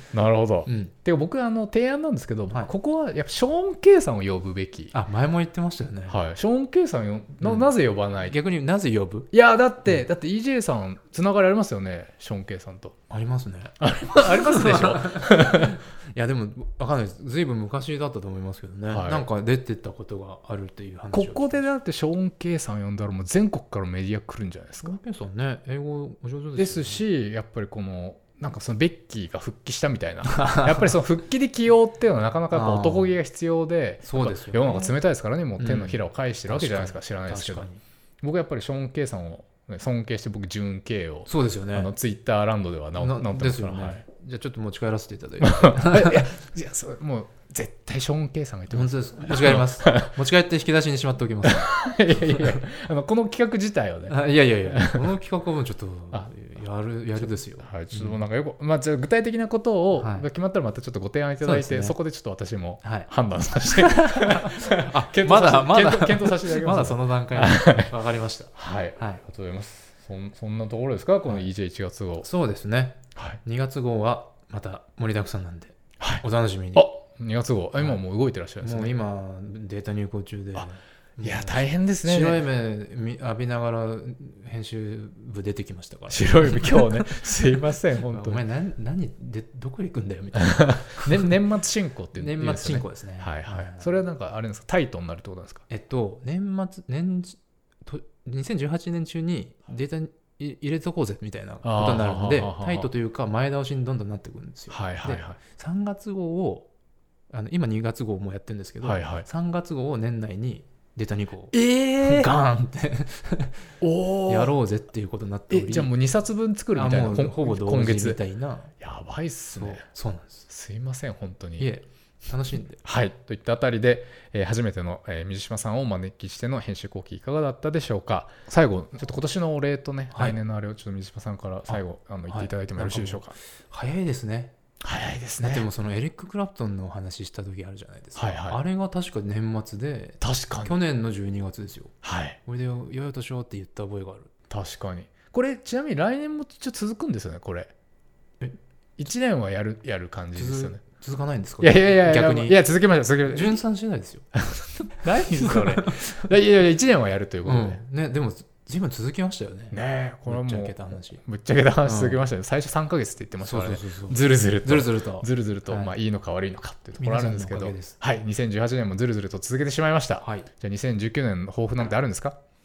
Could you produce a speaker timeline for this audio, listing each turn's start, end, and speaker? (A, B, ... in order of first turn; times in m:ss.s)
0:00.1-0:04.9 A
0:00.7-0:00.9 B
0:04.9-0:06.2 B
0:06.1-0:08.4 A
0:07.4-0:09.3 B
0:09.3-0:13.0 A
0:13.1-0:21.7 B
0:13.8-0:15.8 A
0:18.9-0:19.3 A
0:21.1-0:25.0 A
0:24.8-0:27.0 B
0:26.6-0:37.7 A
0:30.4-0:30.7 B
0:32.5-0:33.2 B
0:34.0-0:35.0 B
0:35.6-0:37.8 B
0:38.2-0:44.0 A
0:41.3-0:41.9 B
0:43.0-0:46.2 B
0:45.4-0:50.2 A
0:48.7-0:52.6 B
0:51.4-0:55.1 A
0:54.1-0:58.2 B
0:57.2-1:07.9 A
0:59.9-1:00.3 B
1:01.4-1:02.0 B
1:02.8-1:03.1 B
1:03.7-1:09.2 B
1:08.6-1:12.3 A
1:12.2-1:16.9 B
1:16.0-1:19.0 A
1:18.6-1:27.3 B
1:21.2-1:22.4 A
1:26.1-1:28.4 A
1:28.0-1:31.4 B
1:30.6-1:35.6 A
1:32.1-1:34.0 B
1:35.7-1:46.7 B
1:41.6-1:42.9 A
1:44.7-1:45.4 A
1:47.3-1:53.6 B
1:48.8-1:49.3 A
1:51.5-1:52.3 A
1:53.8-1:54.6 A
1:54.3-1:55.9 B
1:55.5-1:58.2 A
1:56.7-1:58.7 B
1:58.8-1:59.8 A
1:59.5-2:00.5 B
2:00.5-2:01.7 A
2:01.6-2:02.8 B
2:02.8-2:13.4 A
2:10.1-2:10.4 B
2:11.7-2:14.5 B
2:14.8-2:15.7 A
2:15.4-2:24.3 B
2:18.2-2:18.6 A
2:20.2-2:20.8 A
2:22.0-2:22.4 A
2:24.5-2:27.7 A
2:29.0-2:30.8 A
2:30.4-2:32.6 B
2:31.6-2:33.6 A
2:33.3-2:34.3 B
2:34.4-2:37.8 A
2:35.2-2:36.2 B
2:37.4-2:41.2 B
2:39.7-2:52.4 A
2:41.8-2:42.2 B
2:43.4-2:45.9 B
2:47.0-2:48.0 B
2:50.2-2:50.5 B